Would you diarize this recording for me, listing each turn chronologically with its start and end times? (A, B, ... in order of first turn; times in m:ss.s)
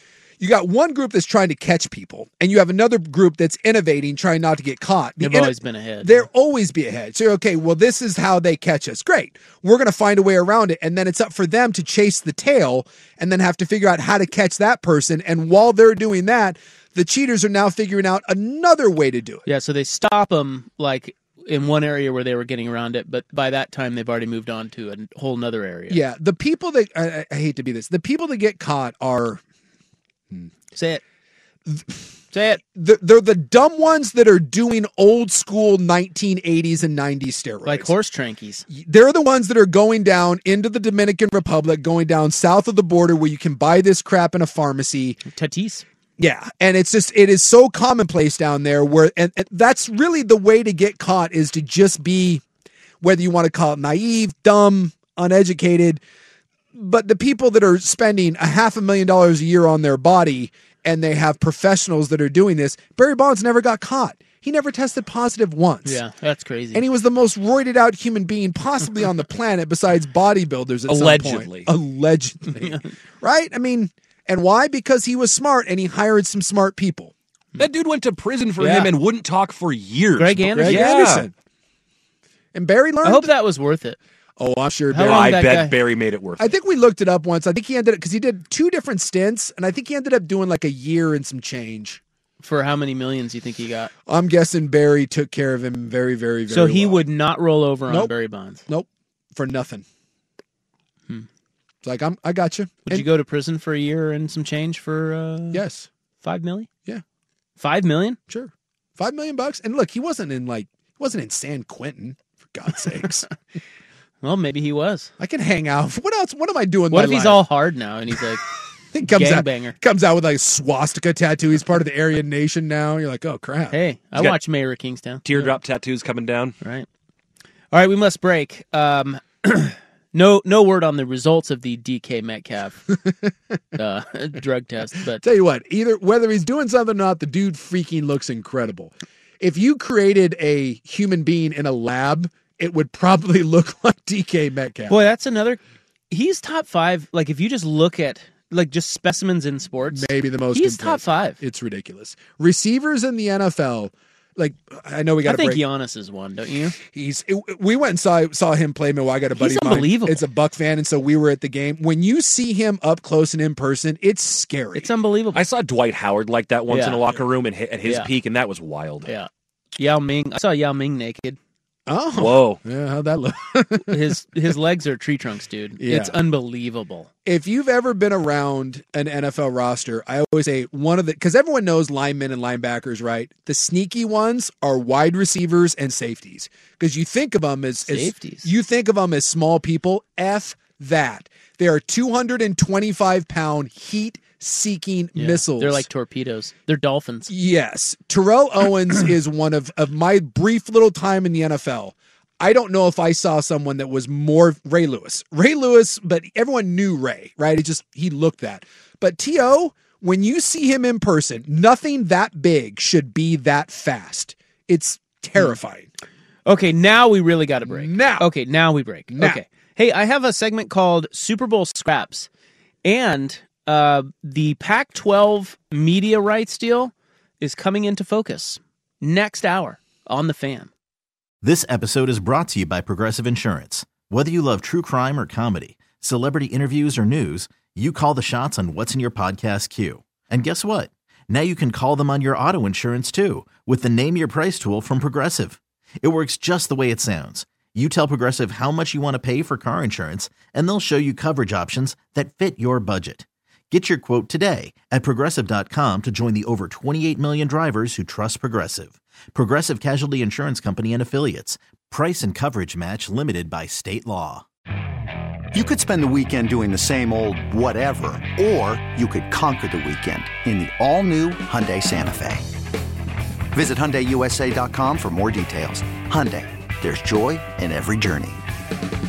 0:00.4-0:19.4 A
0:05.2-0:06.3 B
0:19.4-0:26.0 B
0:25.9-0:29.4 A
0:30.7-0:31.0 B
0:31.6-0:32.0 A
0:32.3-0:32.6 B
0:32.6-0:37.9 A
0:37.6-0:38.6 B
0:38.7-0:45.2 A
0:45.2-0:45.8 B
0:46.2-0:52.4 A
0:53.0-0:56.0 A
0:56.7-1:06.0 A
1:05.8-1:06.8 B
1:06.7-1:17.1 A
1:10.9-1:11.7 C
1:17.6-1:21.3 C
1:18.6-1:18.9 B
1:20.2-1:20.9 B
1:20.6-1:21.3 A
1:22.5-1:23.3 A
1:23.0-1:24.0 B
1:24.4-1:25.4 A
1:24.9-1:25.8 B
1:24.9-1:26.5 C
1:26.4-1:32.0 A
1:32.4-1:33.9 B
1:34.1-1:37.0 A
1:36.5-1:38.6 B
1:37.9-1:38.1 A
1:38.7-1:39.8 A
1:41.8-1:43.0 A
1:42.9-1:45.6 B
1:45.5-1:45.9 A
1:46.2-1:46.7 B
1:47.6-1:48.2 B
1:48.3-1:53.3 A
1:54.2-1:55.1 B
1:55.2-1:57.4 A
1:56.9-1:58.4 B
1:58.9-2:03.8 A
1:59.0-1:59.8 B
2:03.7-2:05.5 B
2:05.2-2:06.6 C
2:06.6-2:06.9 B
2:07.7-2:12.9 B
2:13.8-2:15.2 B
2:15.2-2:25.0 A
2:24.9-2:31.4 B
2:29.9-2:35.6 A
2:35.2-2:36.8 B
2:36.9-2:44.9 A
2:39.3-2:40.2 B
2:44.7-2:45.4 B
2:45.3-2:49.1 C
2:46.7-2:47.0 B
2:47.8-2:48.1 B
2:49.0-2:51.4 B
2:51.9-2:54.2 A
2:52.1-2:52.6 C
2:53.8-2:57.1 B
2:55.8-2:56.2 A
2:57.2-3:15.9 A
3:07.9-3:08.5 B
3:15.1-3:17.3 B
3:17.3-3:35.9 A
3:36.4-3:42.3 B
3:37.6-3:38.3 A
3:39.1-3:39.4 A
3:42.8-3:50.7 B
3:51.4-4:24.4 D
4:25.5-4:32.4 E
4:33.5-4:38.4 E